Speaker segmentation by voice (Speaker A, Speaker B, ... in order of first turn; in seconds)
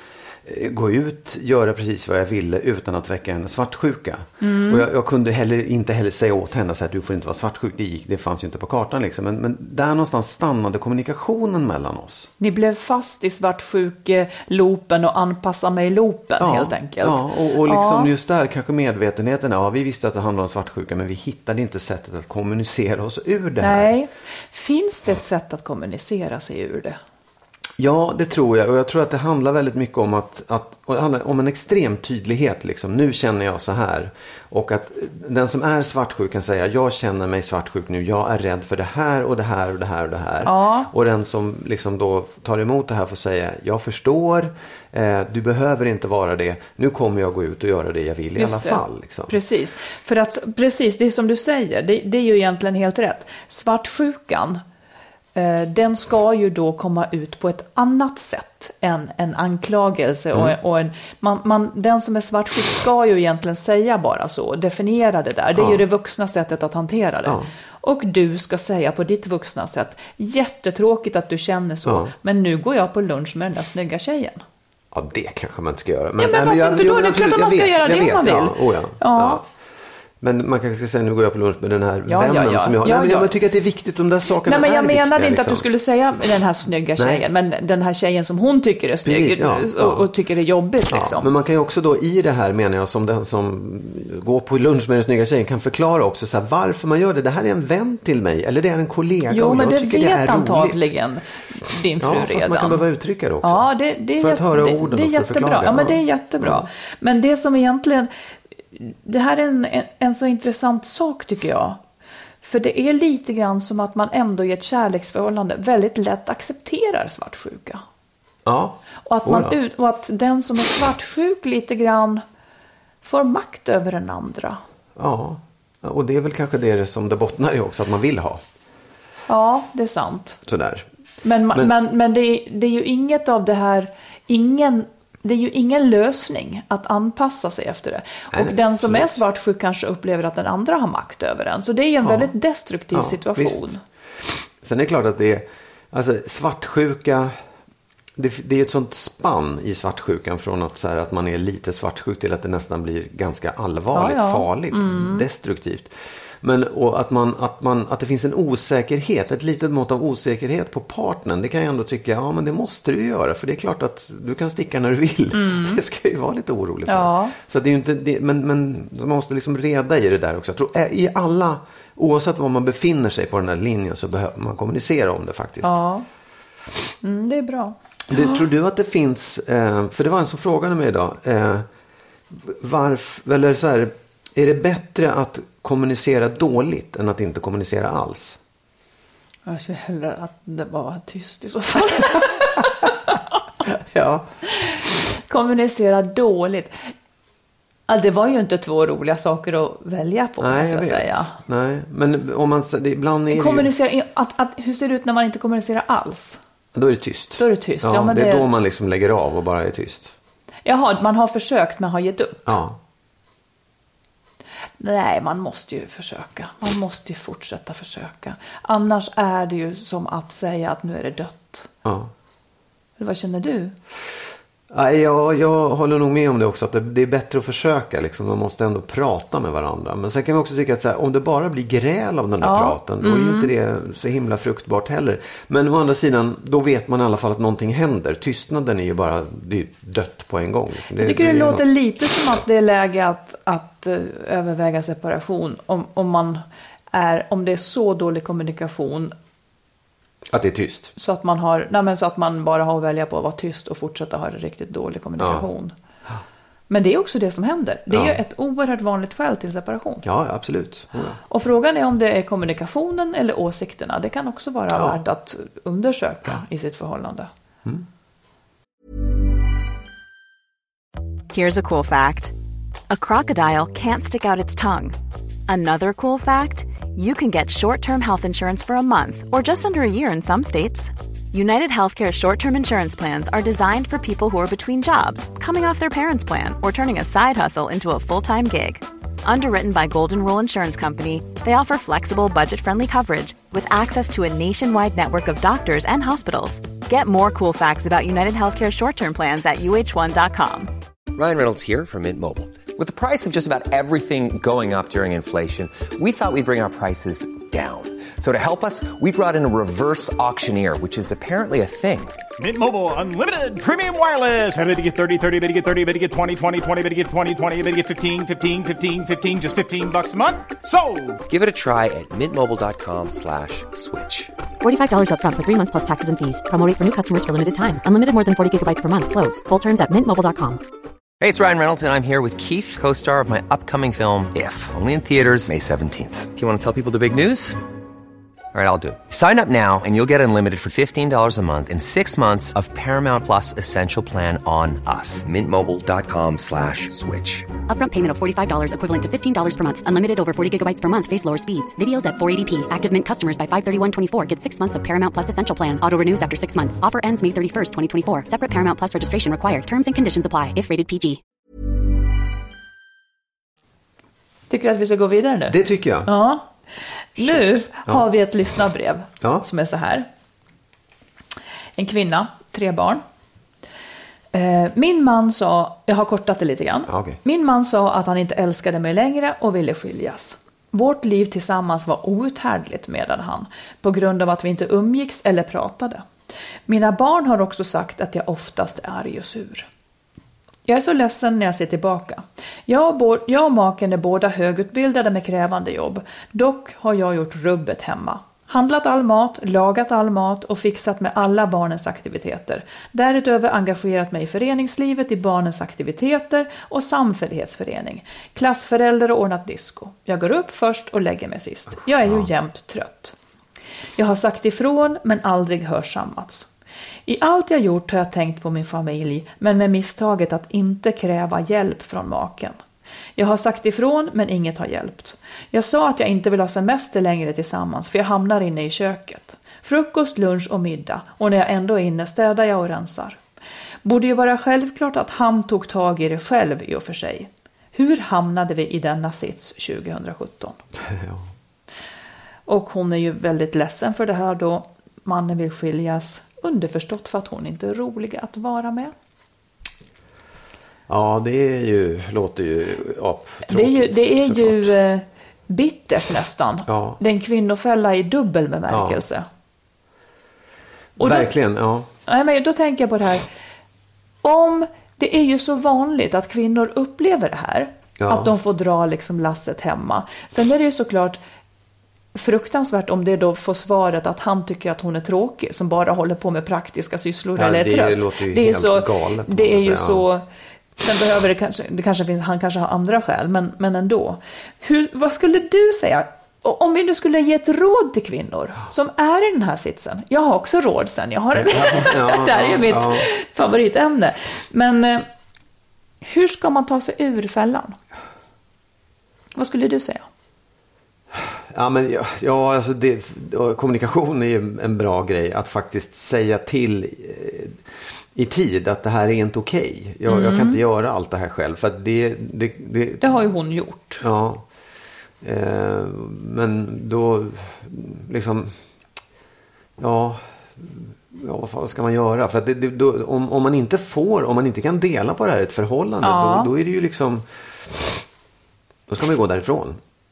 Speaker A: 0.4-12.3, 16.4-23.9, 27.8-49.4, 65.5-65.8, 71.8-72.1, 74.9-79.5, 80.2-85.7, 87.0-87.2, 89.0-90.1, 90.9-100.9, 102.0-106.7, 118.4-119.5, 125.0-128.4, 130.4-130.9, 138.3-139.2, 142.0-142.3, 142.9-143.7, 144.3-147.4, 148.2-175.8, 178.1-181.7, 182.3-188.4, 193.7-194.3, 200.4-203.7, 206.7-210.1, 212.4-212.8, 221.8-222.1, 224.7-241.6, 250.3-250.9, 255.2-255.4, 257.9-258.2, 260.0-261.2, 264.7-265.0, 365.5-366.1, 367.2-368.1, 376.9-377.2, 440.8-441.2, 450.9-454.7, 456.7-457.0, 458.7-459.0, 461.0-461.9, 468.0-468.3, 477.4-480.1, 491.3-493.1, 501.1-507.6, 508.1-513.1, 514.0-514.4, 515.2-518.5, 519.8-527.9, 528.9-529.8
Speaker B: 4.4-4.9, 12.4-18.1, 23.6-27.0, 40.4-40.9, 48.4-54.6, 55.3-74.4, 76.2-79.4, 82.1-83.3, 84.5-91.3, 99.3-102.8, 103.4-108.1, 108.7-111.8, 112.4-117.8, 119.0-122.2, 123.0-124.6, 129.3-130.4, 131.2-143.8, 153.9-155.2, 165.3-165.8, 166.9-167.3, 175.6-176.1, 177.0-178.4, 189.4-192.9, 195.3-196.7, 197.9-201.3, 203.3-206.4, 207.4-208.5, 210.6-212.5, 214.8-221.7, 223.0-223.7, 232.4-233.5, 241.0-249.1, 250.9-255.7, 256.7-260.0, 261.3-267.3, 364.5-366.5, 367.1-370.1, 371.8-373.0, 374.3-386.0, 386.7-389.7, 390.7-413.1, 414.0-416.5, 417.1-422.6, 423.2-433.2, 433.8-440.6, 442.5-448.9, 453.5-459.2, 461.0-461.3, 462.1-463.2, 464.2-471.2, 472.1-480.2, 480.8-495.1, 496.0-497.8, 499.4-500.1, 510.1-510.6, 513.0-514.0, 526.0-526.5
Speaker C: 271.3-272.3, 272.9-274.9, 275.5-300.7
Speaker D: 301.1-312.2, 321.3-324.3, 331.2-337.6, 338.5-347.5
Speaker E: 312.4-321.2
Speaker F: 324.6-330.6, 347.6-361.2